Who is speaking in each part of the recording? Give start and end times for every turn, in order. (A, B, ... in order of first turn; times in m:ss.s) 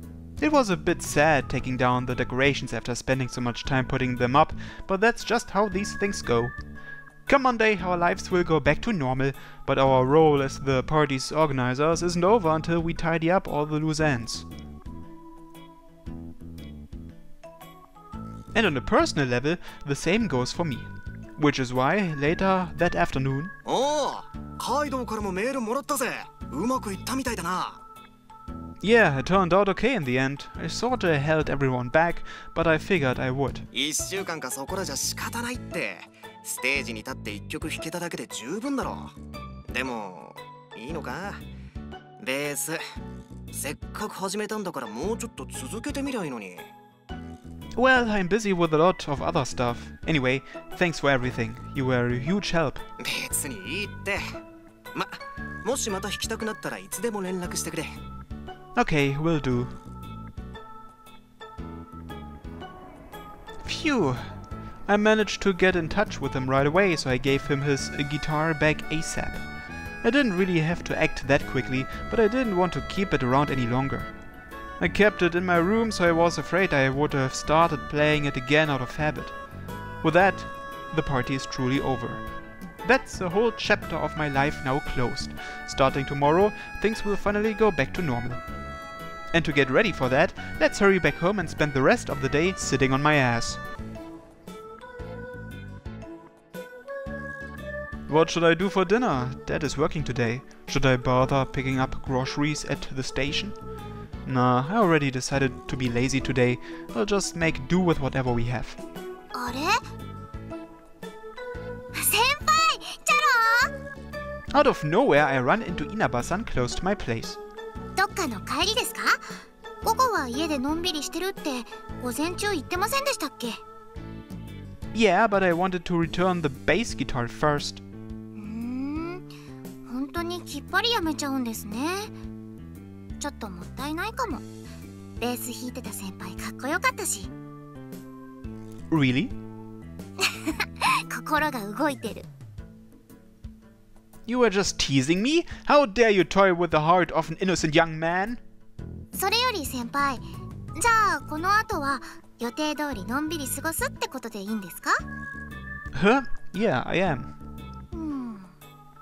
0:00.4-0:06.5 A
0:07.3-0:14.4 A
0:18.5-0:23.5 A
0:23.6-0:27.8 B
0:28.8-0:33.6 A
0:33.7-0:39.1 B
0:39.7-0:41.4 B
0:42.2-0:42.8 B
0:43.5-0:46.7 B
0:47.8-0:52.8 A
0:53.0-0:54.3 B
0:54.9-0:58.0 B
0:58.7-0:59.7 A
1:03.6-1:04.3 A
1:04.9-1:09.4 A
1:10.0-1:14.1 A
1:14.8-1:19.3 A
1:20.0-1:22.2 A
1:22.8-1:28.4 A
1:29.3-1:33.6 A
1:38.1-1:43.6 A
1:44.2-1:48.8 A
1:49.3-1:49.8 C
1:51.9-1:53.7 C
1:54.5-1:57.4 A
1:58.0-2:03.6 C
2:04.9-2:07.8 A
2:08.4-2:09.3 C
2:09.9-2:12.1 C
2:13.2-2:14.4 C
2:15.2-2:17.3 C
2:18.9-2:19.3 A
2:20.2-2:22.3 C
2:24.3-2:28.4 A
2:29.1-2:30.2 C
2:30.8-2:35.0 C
2:35.9-2:37.3 A
2:37.9-2:38.5 C